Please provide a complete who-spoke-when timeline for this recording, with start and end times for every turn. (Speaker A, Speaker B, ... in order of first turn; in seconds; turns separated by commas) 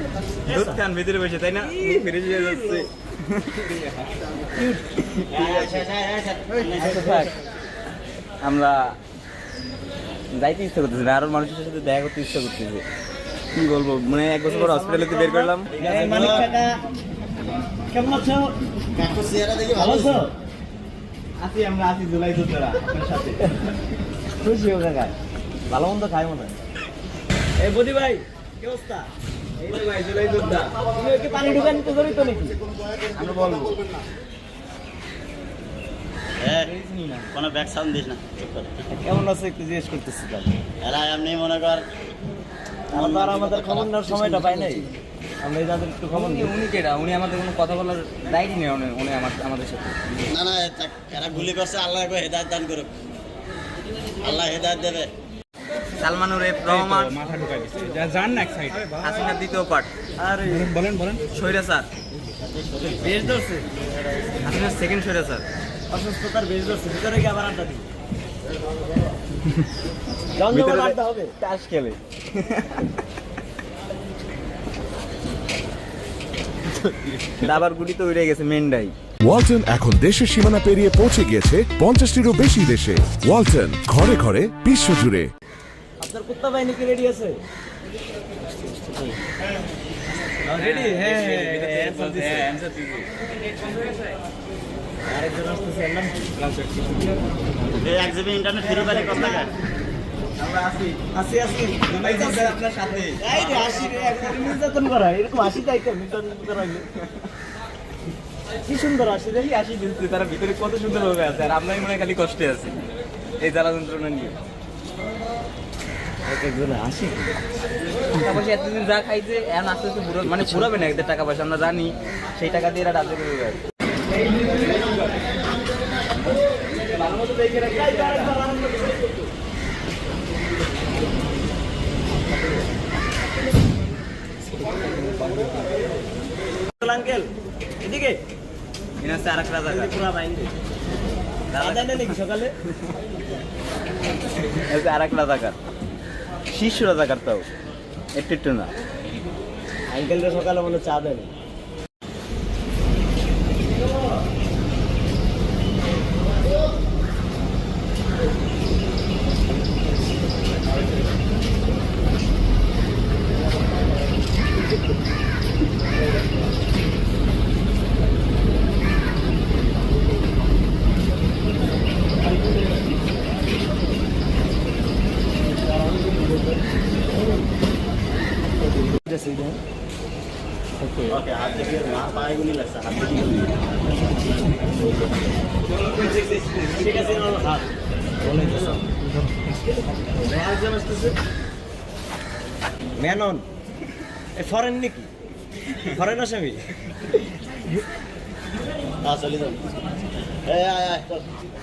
Speaker A: 0.5-0.8, Speaker B: 0.5-3.7, Speaker A: 4.5-4.8, Speaker B: 5.2-5.8, Speaker C: 5.3-7.3, Speaker B: 6.7-7.3, Speaker B: 8.4-9.0, Speaker B: 10.3-12.8, Speaker B: 13.5-15.7, Speaker A: 14.4-16.8, Speaker C: 15.7-16.5, Speaker A: 17.9-18.5, Speaker C: 18.9-20.2, Speaker A: 19.7-20.3, Speaker B: 21.4-23.5, Speaker A: 24.4-25.1, Speaker A: 25.7-26.5, Speaker A: 27.6-29.1, Speaker B: 29.6-30.7, Speaker A: 30.8-32.6, Speaker B: 33.1-33.8, Speaker C: 36.4-36.7, Speaker B: 36.6-37.3, Speaker C: 37.3-38.8, Speaker A: 38.9-40.5, Speaker C: 40.8-41.9, Speaker A: 42.9-44.9, Speaker C: 42.9-44.0, Speaker A: 45.4-46.5, Speaker B: 46.1-50.0, Speaker C: 50.3-52.9, Speaker C: 54.2-55.1, Speaker B: 56.0-57.2, Speaker D: 56.7-58.7, Speaker B: 58.0-59.9, Speaker A: 60.2-60.8, Speaker D: 60.7-61.2, Speaker B: 61.2-61.9, Speaker C: 62.4-63.2, Speaker A: 63.0-63.6, Speaker B: 64.4-65.4, Speaker A: 65.9-67.8, Speaker A: 70.3-71.3, Speaker B: 70.5-73.0, Speaker B: 76.8-78.9, Speaker E: 79.2-85.3, Speaker A: 86.0-87.4, Speaker A: 90.4-92.5, Speaker B: 90.5-93.1, Speaker A: 95.0-96.3, Speaker B: 96.4-96.9, Speaker C: 97.8-99.5, Speaker A: 98.6-99.5, Speaker B: 100.4-101.0, Speaker A: 101.1-102.5, Speaker B: 101.9-103.7, Speaker A: 103.2-106.8, Speaker A: 108.7-109.3, Speaker B: 109.2-112.7, Speaker B: 113.4-114.3, Speaker A: 116.3-117.3, Speaker B: 118.2-123.6, Speaker A: 120.2-120.7, Speaker B: 127.0-128.4, Speaker A: 127.6-129.1, Speaker A: 136.8-138.2, Speaker B: 139.0-139.9, Speaker A: 139.6-140.5, Speaker B: 141.5-142.2, Speaker A: 141.5-142.5, Speaker B: 144.7-145.6, Speaker B: 146.5-147.5, Speaker B: 148.1-148.7, Speaker A: 149.9-151.3, Speaker A: 178.9-179.6, Speaker C: 181.0-183.5, Speaker A: 186.5-187.7, Speaker A: 188.2-188.8, Speaker A: 190.0-191.1, Speaker A: 193.0-193.4, Speaker A: 194.3-195.1, Speaker A: 195.8-196.6, Speaker C: 199.0-199.6, Speaker C: 200.4-201.3